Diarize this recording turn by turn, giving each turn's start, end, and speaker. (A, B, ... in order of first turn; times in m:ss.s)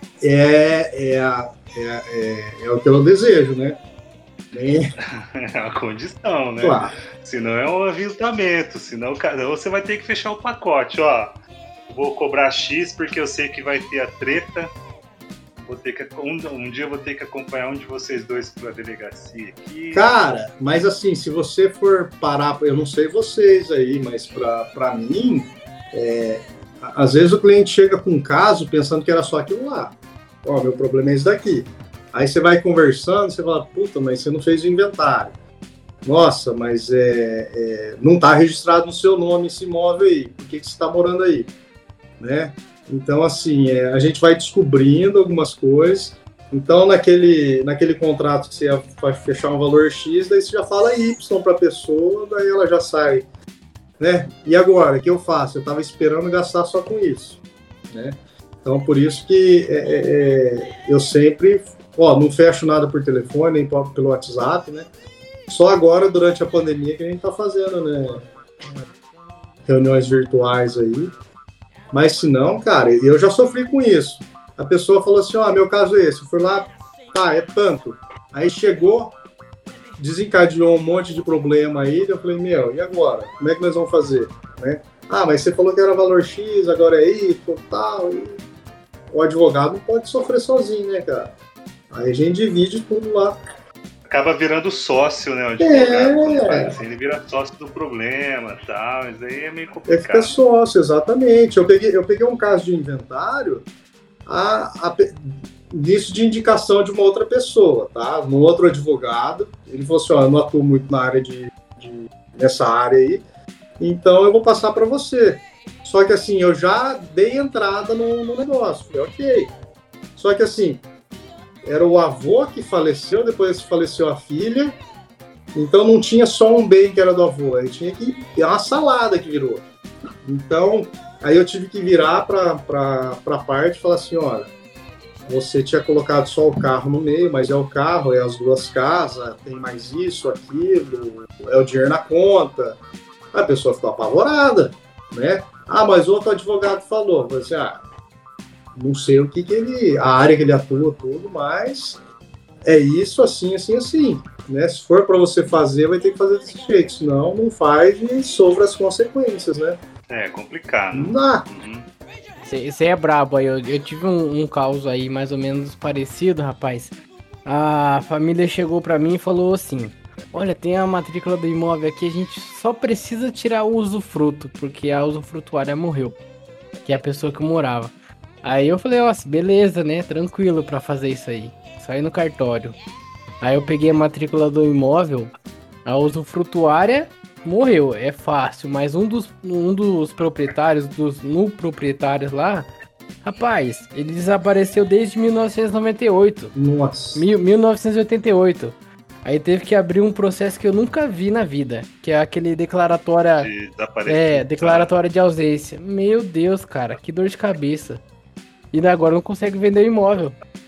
0:00.2-0:03.8 A
0:04.5-0:04.9 A
0:05.1-0:11.4 B
0:06.6-0:06.9 A
0:11.9-0:14.7 B
0:15.6-0:20.1 B
0:19.9-0:35.3 A
0:36.0-0:41.5 A
0:42.2-0:53.2 A
0:54.0-0:57.4 A
0:57.9-1:04.9 A
1:05.5-1:08.2 A
1:09.6-1:11.1 A
1:11.9-1:19.2 A
1:20.0-1:28.4 A
1:29.1-1:31.3 A
1:31.9-1:33.4 A
1:34.1-1:40.3 B
1:35.6-1:36.7 A
1:39.9-1:43.6 A
1:44.3-1:53.2 A
1:53.8-1:59.5 A
2:00.2-2:00.8 A
2:01.6-2:04.8 A
2:05.5-2:09.6 A
2:10.2-2:14.5 A
2:15.3-2:22.8 A
2:23.3-2:27.8 A
2:28.7-2:32.0 A
2:32.6-2:39.8 A
2:40.1-2:41.9 B
2:40.9-2:41.4 A
2:42.4-2:46.9 C
2:47.4-2:56.2 C
2:56.8-3:02.7 C
3:03.4-3:05.3 C
3:05.8-3:12.7 C
3:13.2-3:16.5 C
3:16.5-3:17.2 A
3:17.1-3:23.5 C
3:23.4-3:24.9 B
3:24.1-3:28.0 C
3:28.7-3:30.3 C